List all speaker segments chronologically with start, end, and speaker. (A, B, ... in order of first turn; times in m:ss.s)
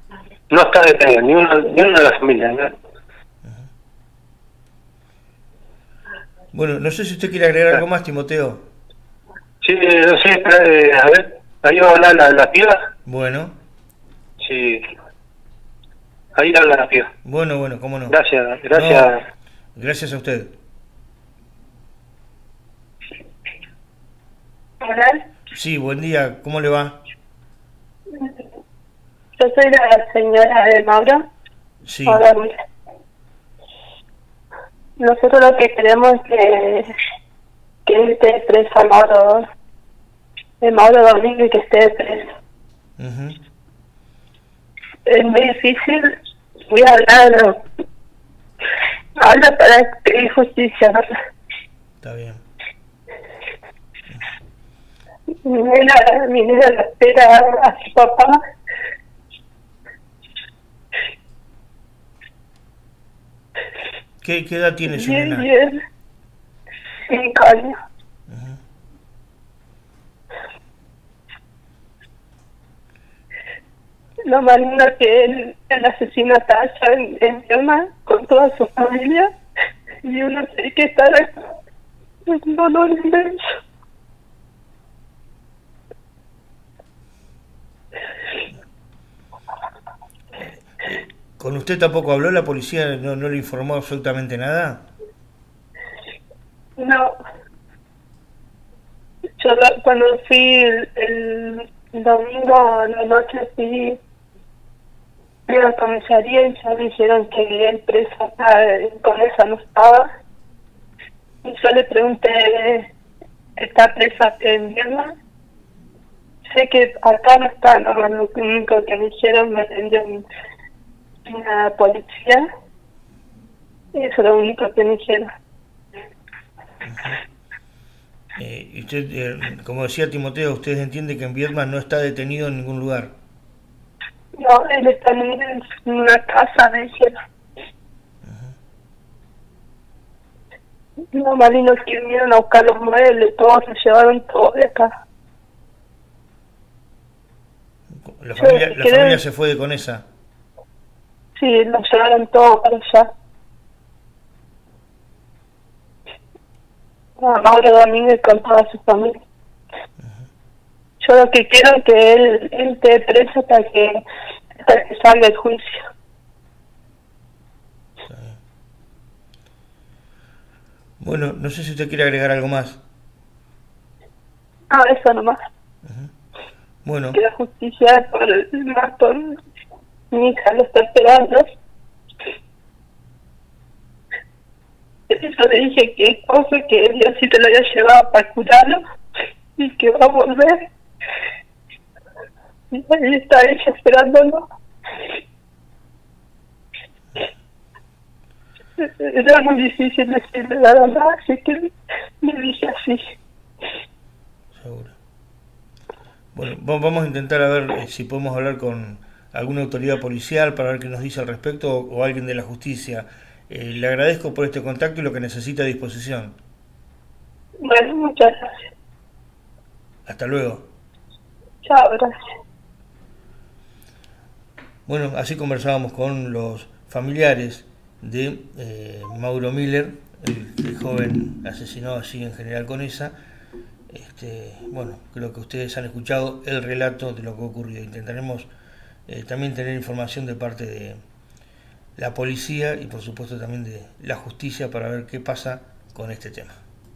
0:00.5-0:02.7 A
0:06.5-0:08.7 B
0:09.6-0:12.8 A
0:13.1-0:13.5 B
0:14.4-0:14.8 A
0:16.4-0:17.1 A
0:17.2-0:18.2 B
0:18.1-0:19.2 A
0:18.7-0:19.1 B
0:19.8-0:20.5 B
0:24.8-0:25.2 C
0:25.5-0:27.0 B
0:29.4-0:31.3 C
0:31.8-0:32.3 B
0:32.1-0:32.5 C
0:35.0-0:36.9 C
0:37.9-0:39.5 C
0:40.6-0:42.3 C
0:43.0-0:43.4 B
0:45.1-0:46.1 C
0:46.7-0:47.6 C
0:49.2-0:51.0 C
0:52.0-0:52.4 B
0:55.4-0:58.4 C
1:04.2-1:05.5 B
1:04.9-1:05.8 C
1:07.1-1:07.8 C
1:08.3-1:08.6 B
1:14.2-1:19.3 C
1:20.0-1:21.5 C
1:22.3-1:23.5 C
1:30.8-1:34.9 B
1:36.8-1:37.1 C
1:39.4-1:44.0 C
1:45.5-1:50.1 C
1:51.4-1:52.9 C
1:53.6-1:55.1 C
1:56.5-2:00.2 C
2:01.3-2:02.4 C
2:03.9-2:05.3 C
2:06.9-2:07.2 B
2:08.4-2:13.1 B
2:14.4-2:17.2 C
2:18.2-2:18.5 B
2:21.1-2:24.9 C
2:28.1-2:30.0 B
2:28.4-2:29.2 C
2:31.4-2:33.1 C
2:37.2-2:39.2 C
2:41.0-2:44.0 C
2:44.6-2:45.9 C
2:48.1-2:48.4 B
2:51.0-2:52.8 B
2:54.7-2:55.4 C
2:55.8-2:56.1 B
2:56.8-2:57.2 B
2:57.2-2:59.4 C
3:00.1-3:01.5 C
3:05.1-3:08.8 C
3:09.6-3:10.7 C
3:12.7-3:14.4 C
3:18.8-3:23.0 C
3:24.6-3:25.0 B
3:26.4-3:36.4 B
3:37.6-3:38.5 C
3:40.1-3:40.7 B
3:41.6-3:42.1 C
3:44.9-3:53.1 B
3:53.9-3:58.5 B
3:59.1-4:01.0 B
4:02.0-4:06.6 B